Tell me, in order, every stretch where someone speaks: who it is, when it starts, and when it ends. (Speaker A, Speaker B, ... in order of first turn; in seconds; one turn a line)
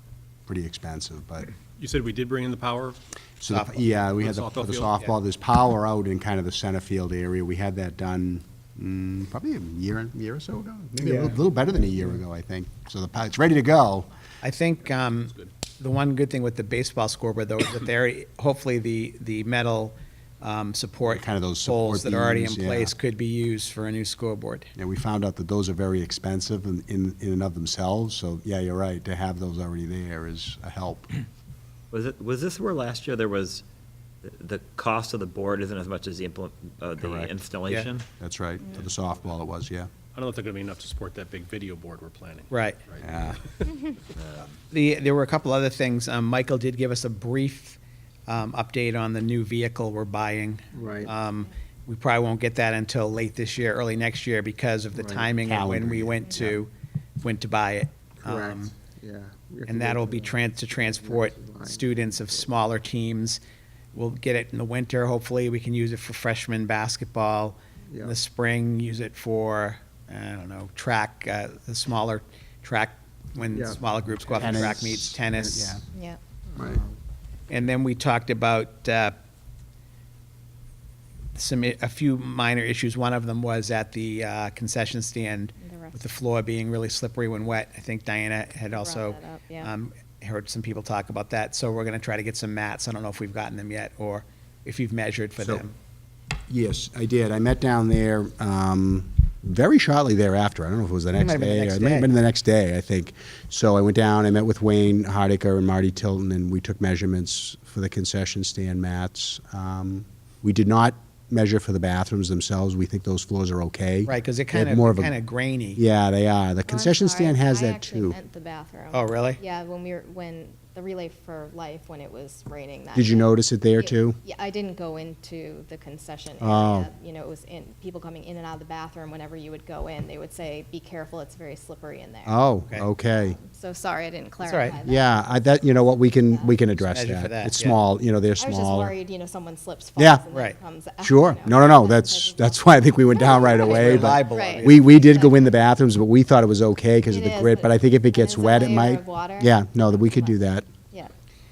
Speaker A: 0.5-1.5
Speaker B: 1.8-3.0
Speaker A: 3.4-14.1
Speaker C: 3.5-3.8
Speaker B: 4.1-5.0
Speaker C: 14.4-24.7
Speaker A: 21.0-22.9
Speaker A: 24.8-31.1
Speaker D: 31.9-33.6
Speaker D: 34.2-38.0
Speaker A: 37.0-37.3
Speaker A: 38.2-39.9
Speaker B: 40.1-43.0
Speaker C: 42.5-42.8
Speaker A: 43.0-43.4
Speaker D: 44.1-44.5
Speaker C: 44.7-56.7
Speaker E: 50.7-51.1
Speaker E: 55.0-55.3
Speaker A: 55.4-56.6
Speaker C: 57.2-58.7
Speaker E: 58.2-62.1
Speaker C: 59.7-63.4
Speaker C: 63.9-75.8
Speaker E: 67.9-68.2
Speaker E: 73.5-73.8
Speaker A: 74.2-75.8
Speaker F: 75.9-76.2
Speaker E: 76.5-77.0
Speaker C: 77.5-79.1
Speaker C: 81.3-95.7
Speaker F: 85.6-86.1
Speaker F: 88.7-89.7
Speaker A: 95.4-95.7
Speaker A: 96.5-115.2
Speaker C: 101.1-102.1
Speaker C: 114.1-115.8
Speaker A: 115.7-118.2
Speaker F: 116.6-132.4
Speaker C: 118.9-119.4
Speaker A: 122.9-124.2
Speaker A: 126.4-126.9
Speaker A: 132.2-133.4
Speaker F: 133.0-136.8
Speaker C: 134.4-134.8
Speaker A: 134.8-138.9
Speaker C: 136.9-137.8
Speaker F: 138.4-145.6
Speaker A: 140.0-140.2
Speaker C: 140.3-140.6
Speaker A: 141.0-150.7
Speaker C: 143.5-144.8
Speaker F: 147.0-151.1